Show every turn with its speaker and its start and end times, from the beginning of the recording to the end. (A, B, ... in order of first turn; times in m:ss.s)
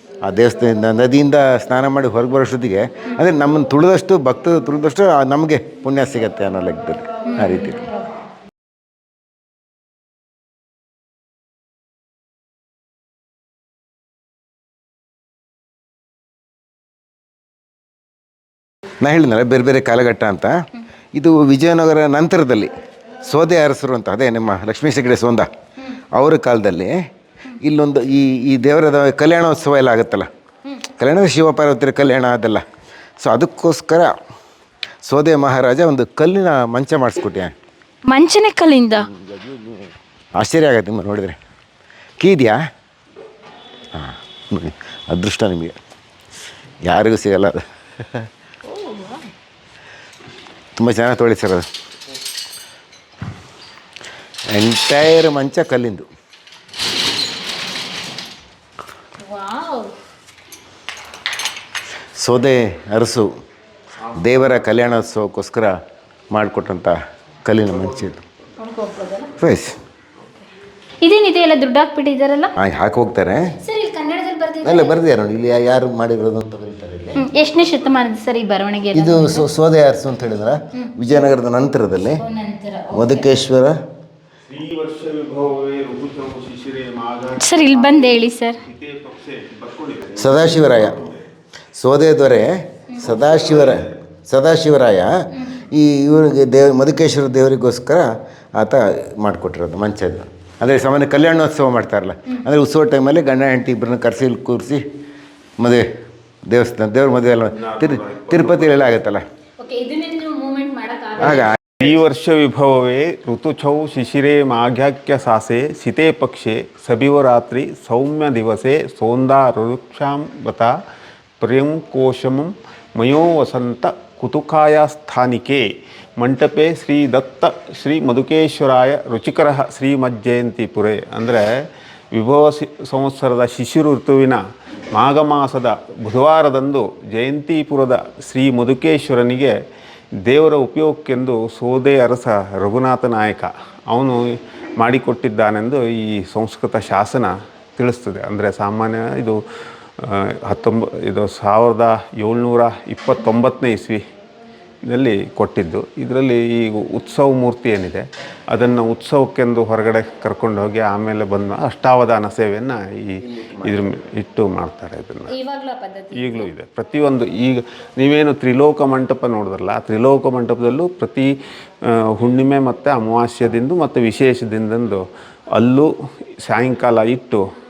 0:00.2-0:07.8 A
0:07.3-0:07.7 B
0:19.0-0:25.5 A
0:26.1-0:27.0 A
0:27.6-0:30.3 A
0:31.0-0:32.6 A
0:33.2-0:34.1 A
0:35.0-0:37.5 A
0:38.0-0:39.1 B
0:39.1-0:41.4 A
0:42.2-0:42.6 A
0:43.9-0:45.8 A
0:46.8-0:48.3 A
0:48.6-0:49.3 B
0:50.8-0:51.6 A
0:54.5-0:56.0 A
0:59.2-0:59.9 B
1:02.2-1:03.3 A
1:04.1-1:05.7 A
1:06.3-1:08.2 A
1:08.6-1:09.3 B
1:09.4-1:09.8 A
1:11.0-1:12.5 B
1:12.6-1:13.5 A
1:13.6-1:15.0 B
1:14.6-1:17.2 A
1:17.2-1:19.5 B
1:18.9-1:22.2 A
1:22.2-1:23.3 B
1:22.9-1:23.8 A
1:24.5-1:31.2 C
1:27.4-1:28.6 B
1:30.2-1:31.1 A
1:31.7-1:44.8 A
1:33.2-1:33.8 C
1:45.6-1:45.9 A
1:46.5-1:49.2 A
1:47.5-1:48.9 C
1:49.6-1:51.6 B
1:51.2-1:51.6 A
1:51.7-2:00.7 C
2:01.4-2:14.4 C
2:14.9-2:19.5 C
2:20.2-2:29.4 C
2:30.0-2:34.0 C
2:34.8-2:45.3 C
2:43.2-2:43.9 A
2:45.3-2:46.5 B
2:46.1-2:51.3 C
2:51.8-2:57.4 C